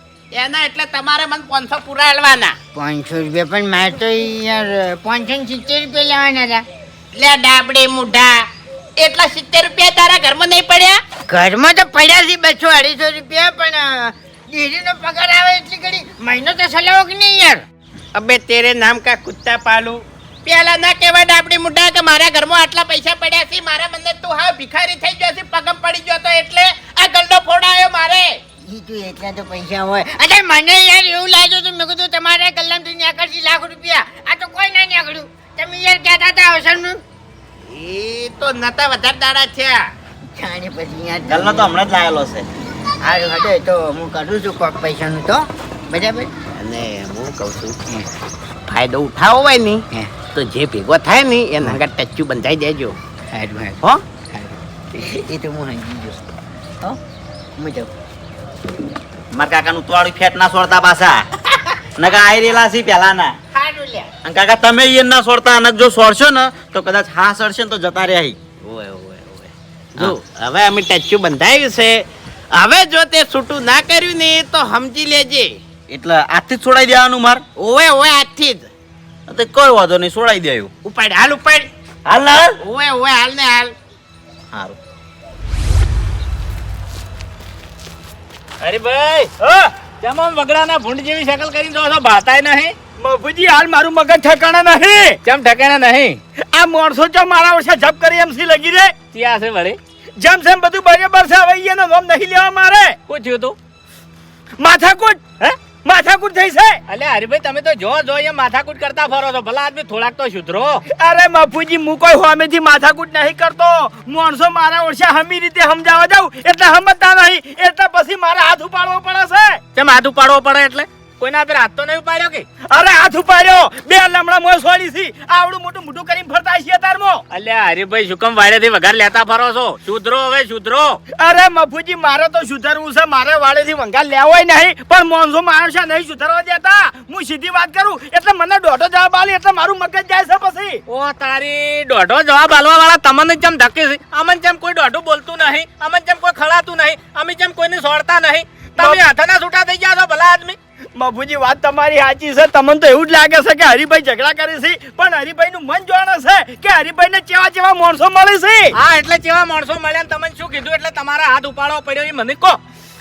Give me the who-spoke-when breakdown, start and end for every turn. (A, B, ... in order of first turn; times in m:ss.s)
0:00.3-0:02.6 A
0:02.7-0:06.6 B
0:07.1-0:08.4 A
0:09.0-0:11.0 A
0:11.3-0:17.6 B
0:18.1-0:28.4 A
0:28.6-0:37.0 B
0:37.6-0:39.9 A
0:40.3-0:41.8 B
0:41.3-0:42.4 C
0:43.0-0:46.3 B
0:46.5-0:47.8 A
0:48.7-0:53.0 A
0:53.3-0:56.2 B
0:57.6-0:57.9 B
0:59.3-1:01.2 C
1:02.0-1:03.3 C
1:03.5-1:04.1 B
1:04.2-1:08.4 C
1:08.6-1:15.6 A
1:15.9-1:17.4 C
1:17.6-1:18.7 A
1:19.3-1:20.7 C
1:20.8-1:21.7 A
1:22.0-1:22.5 C
1:22.6-1:23.7 A
1:28.6-1:29.3 D
1:29.4-1:29.7 E
1:30.0-1:32.7 D
1:33.0-1:35.2 E
1:35.2-1:36.2 D
1:36.5-1:38.9 E
1:39.1-1:39.8 D
1:40.2-1:43.0 E
1:43.1-1:43.6 D
1:44.6-1:46.8 E
1:46.9-1:50.8 D
1:50.9-1:59.6 E
1:59.7-2:02.4 D
2:02.7-2:07.2 E
2:07.3-2:11.0 D
2:11.2-2:20.8 E
2:20.9-2:30.6 D
2:31.0-2:38.7 E
2:38.8-2:42.6 D